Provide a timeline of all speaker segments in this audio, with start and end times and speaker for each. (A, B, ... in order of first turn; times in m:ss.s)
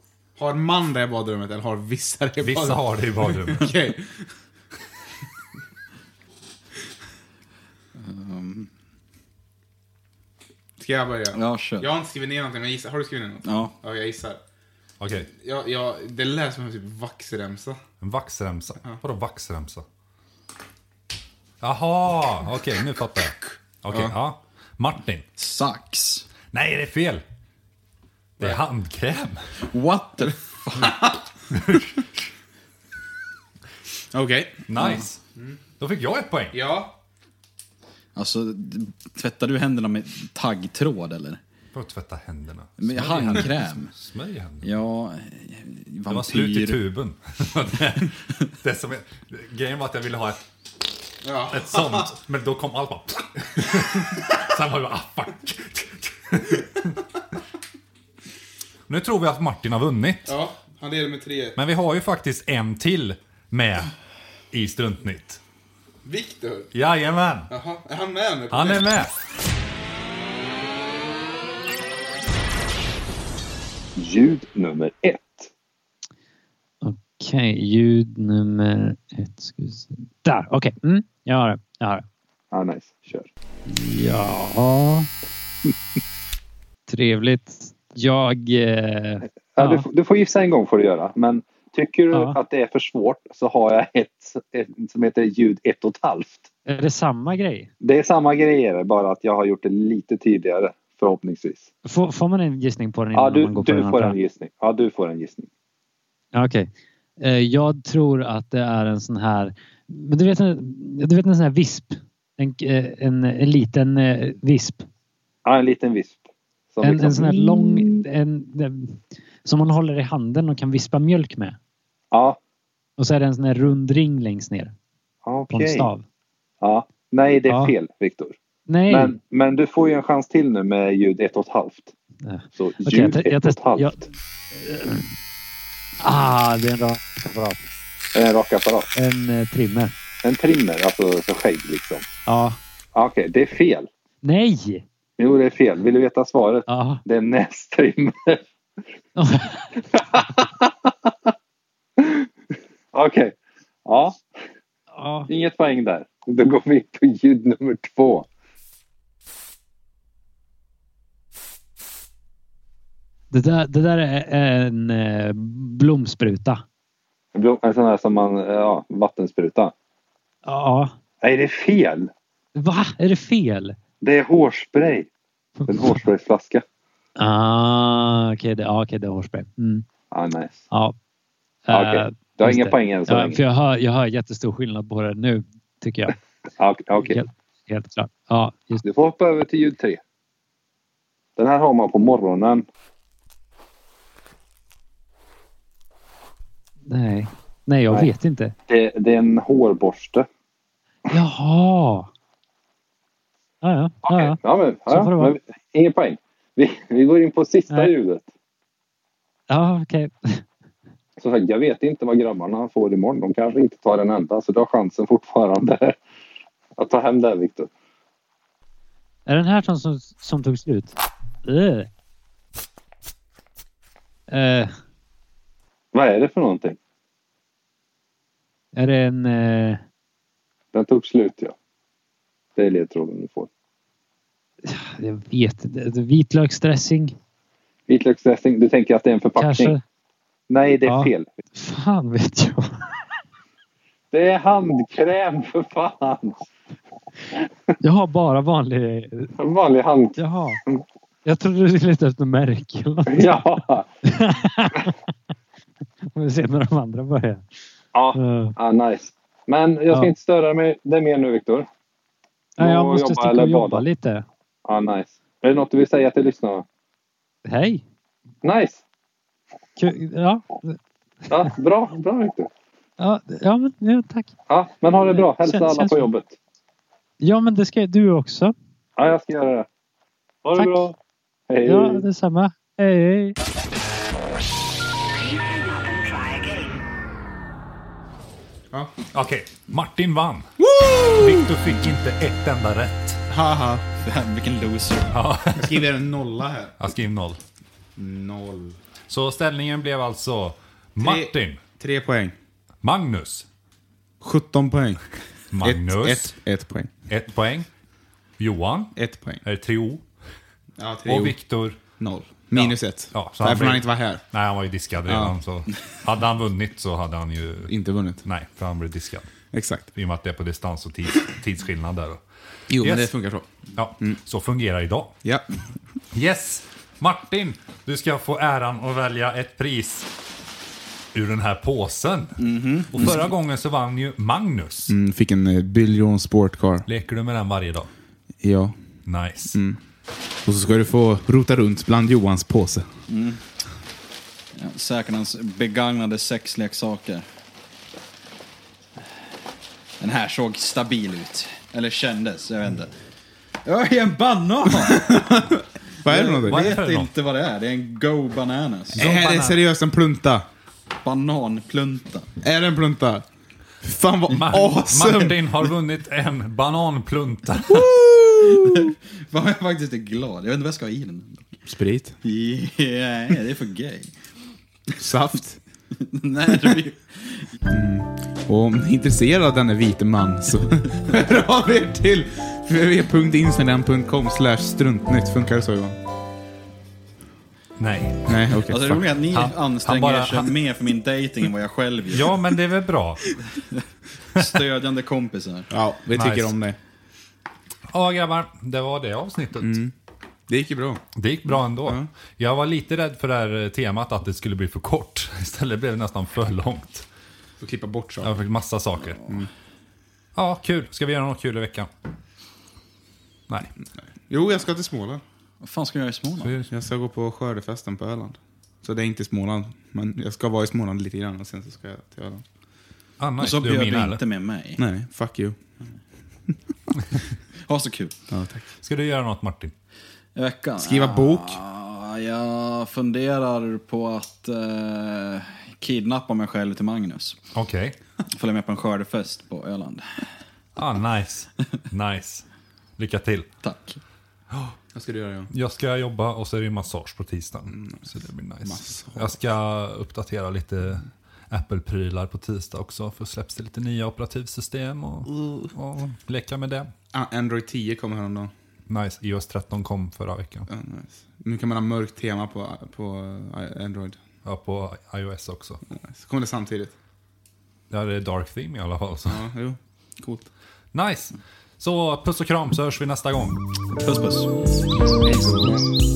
0:00.4-0:04.2 A
0:02.4-0:03.7 B
0:07.9-0:08.7 C
0:10.8-0:14.4 A
0:11.3-0:11.9 C
0:13.4-0:13.7 C
0:15.0-0:15.3 B
0:15.3-0:17.8 A
0:18.0-0:19.8 B
0:21.6-0:25.2 B
0:23.9-0:24.1 A
0:25.4-0:26.3 C
0:26.5-0:27.2 B
0:28.4-0:29.4 B
0:29.7-0:31.0 C
0:30.8-0:31.2 A
0:34.1-0:34.6 A
0:34.7-0:35.2 B
0:34.8-0:35.0 C
0:35.8-0:36.6 B
0:36.5-0:37.0 A
0:38.1-0:41.4 C
0:41.7-0:44.7 B
0:42.8-0:43.9 C
0:44.6-0:46.8 C
0:46.1-0:50.4 B
0:51.2-0:52.1 A
0:51.5-0:56.9 B
0:58.9-1:00.3 B
1:00.3-1:01.6 A
1:01.6-1:03.9 B
1:04.5-1:05.4 B
1:06.0-1:06.7 A
1:06.7-1:07.5 B
1:07.5-1:08.9 A
1:08.5-1:09.1 B
1:14.0-1:15.5 D
1:16.8-1:22.0 E
1:22.5-1:23.3 D
1:23.7-1:25.1 E
1:26.9-1:29.9 E
1:29.5-1:36.5 D
1:32.1-1:32.4 E
1:36.6-1:37.7 E
1:37.8-1:41.7 D
1:41.8-1:44.2 E
1:43.1-1:45.5 D
1:46.3-1:54.9 E
1:55.4-1:58.0 D
1:56.8-2:01.6 E
2:02.1-2:02.4 D
2:03.0-2:04.7 E
2:05.2-2:05.9 D
2:05.5-2:06.0 E
2:06.6-2:08.4 D
2:07.5-2:07.7 E
2:08.7-2:09.2 E
2:08.9-2:11.9 D
2:12.2-2:15.1 E
2:12.5-2:14.0 D
2:16.0-2:17.7 E
2:18.1-2:18.9 D
2:18.9-2:19.9 E
2:20.2-2:22.1 D
2:22.2-2:22.6 E
2:22.9-2:23.9 D
2:24.2-2:24.8 E
2:25.2-2:28.4 D
2:26.7-2:27.0 E
2:29.2-2:29.8 E
2:29.9-2:31.1 D
2:32.0-2:32.3 D
2:32.9-2:34.3 D
2:34.9-2:35.3 E
2:35.3-2:38.2 D
2:43.3-2:46.6 E
2:47.3-2:49.7 D
2:50.4-2:50.9 E
2:51.2-2:52.1 D
2:52.5-2:53.8 E
2:54.0-2:55.1 D
2:55.6-2:56.0 E
2:55.7-2:56.6 D
2:57.2-2:59.8 E
3:00.1-3:00.7 D
3:01.7-3:06.2 E
3:01.7-3:03.4 D
3:06.6-3:07.2 D
3:07.0-3:08.8 E
3:08.8-3:10.0 D
3:11.4-3:12.6 D
3:16.9-3:18.5 E
3:18.7-3:20.3 D
3:21.1-3:22.1 E
3:23.6-3:25.4 E
3:24.0-3:28.2 D
3:29.5-3:30.4 E
3:31.2-3:36.0 D
3:36.8-3:37.7 D
3:39.3-3:41.9 E
3:44.3-3:44.7 E
3:45.9-3:46.8 D
3:48.7-3:49.8 E
3:50.7-3:51.5 D
3:52.6-3:53.5 D
3:54.6-3:57.2 E
3:57.9-3:59.8 D
3:59.4-3:59.8 E
4:00.5-4:01.3 D
4:00.8-4:03.0 E
4:04.1-4:06.5 D
4:07.8-4:09.3 E
4:09.4-4:10.8 D
4:10.2-4:10.6 E
4:11.2-4:13.4 E
4:13.1-4:13.8 D
4:14.0-4:14.9 E
4:16.1-4:17.5 E
4:17.9-4:21.7 D
4:18.1-4:18.5 E
4:22.6-4:23.8 D
4:22.6-4:24.2 E
4:24.6-4:26.6 D
4:27.4-4:27.8 E
4:28.4-4:28.8 D
4:29.8-4:30.8 E
4:31.3-4:32.5 D
4:33.0-4:34.3 E
4:34.5-4:36.3 D
4:35.1-4:36.1 E
4:37.2-4:38.5 E
4:39.0-4:39.7 D
4:40.4-4:40.9 D
4:40.5-4:40.9 E
4:41.5-4:42.0 D
4:41.6-4:43.4 E
4:49.1-4:50.5 B
4:50.6-4:51.5 A
4:51.1-4:53.2 B
4:53.3-4:53.8 A
4:54.0-4:55.1 C
4:55.1-4:55.8 B
4:55.6-4:56.8 A
4:56.8-4:57.4 B
4:58.0-4:58.8 A
4:59.1-5:01.6 B
5:01.0-5:02.3 A
5:02.8-5:03.4 B
5:04.2-5:05.0 A
5:05.5-5:06.3 B
5:05.6-5:06.9 A
5:07.1-5:07.7 B
5:08.4-5:10.0 B
5:08.9-5:09.4 A
5:10.8-5:14.2 A
5:11.0-5:11.8 B
5:12.5-5:19.3 B
5:15.1-5:15.3 A
5:17.7-5:18.2 A
5:19.5-5:19.9 A
5:19.9-5:22.2 B
5:22.7-5:23.4 A
5:22.8-5:23.1 B
5:23.7-5:25.1 B
5:26.1-5:30.1 B
5:31.1-5:32.4 B
5:32.4-5:33.3 C
5:32.9-5:34.9 B
5:34.9-5:36.8 A
5:36.9-5:37.9 B
5:38.4-5:38.8 A
5:39.0-5:39.6 B
5:39.5-5:39.8 A
5:40.4-5:42.9 A
5:43.1-5:43.4 C
5:44.5-5:47.2 C
5:50.0-5:52.9 C
5:53.6-5:55.5 C
5:54.8-5:56.6 A
5:56.0-5:59.0 C
5:56.5-5:57.1 B
5:59.0-5:59.6 B
5:59.0-6:00.4 A
6:01.0-6:02.3 C
6:02.4-6:03.2 A
6:03.8-6:05.7 A
6:04.3-6:07.8 B
6:07.8-6:11.6 C
6:08.4-6:08.8 A
6:11.7-6:12.2 A
6:12.2-6:14.1 C
6:15.0-6:15.6 A
6:15.9-6:17.5 C
6:16.5-6:16.8 A
6:17.7-6:26.0 A
6:27.8-6:30.5 B
6:28.3-6:28.9 A
6:28.7-6:32.4 C
6:32.1-6:33.3 B
6:34.4-6:35.7 C
6:35.7-6:36.8 A
6:36.2-6:36.5 B
6:37.9-6:39.8 B
6:39.6-6:39.9 A
6:40.5-6:42.1 A
6:41.2-6:47.1 B
6:47.6-6:48.3 A
6:48.2-6:49.2 B
6:50.3-6:51.9 B
6:54.3-6:55.2 A
6:55.6-6:56.5 C
6:56.4-6:56.7 B
6:56.7-7:02.4 A
7:03.2-7:04.2 B
7:03.4-7:04.8 C
7:04.8-7:05.8 A
7:07.6-7:08.2 C
7:08.3-7:08.7 A
7:08.8-7:09.7 B
7:10.3-7:17.4 C
7:10.8-7:11.6 A
7:17.5-7:17.9 B
7:18.3-7:20.3 C
7:20.8-7:22.5 B
7:23.0-7:23.5 B
7:23.6-7:24.0 C
7:24.9-7:25.5 A
7:25.5-7:36.9 B
7:27.7-7:28.0 A
7:28.6-7:29.4 A
7:37.1-7:38.5 A
7:38.9-7:40.7 B
7:40.7-7:44.2 A
7:44.4-7:45.8 B
7:45.9-7:46.9 A
7:47.9-7:49.4 B
7:49.3-7:50.5 A
7:50.9-7:53.6 B
7:54.0-7:54.5 C
7:55.2-7:55.9 A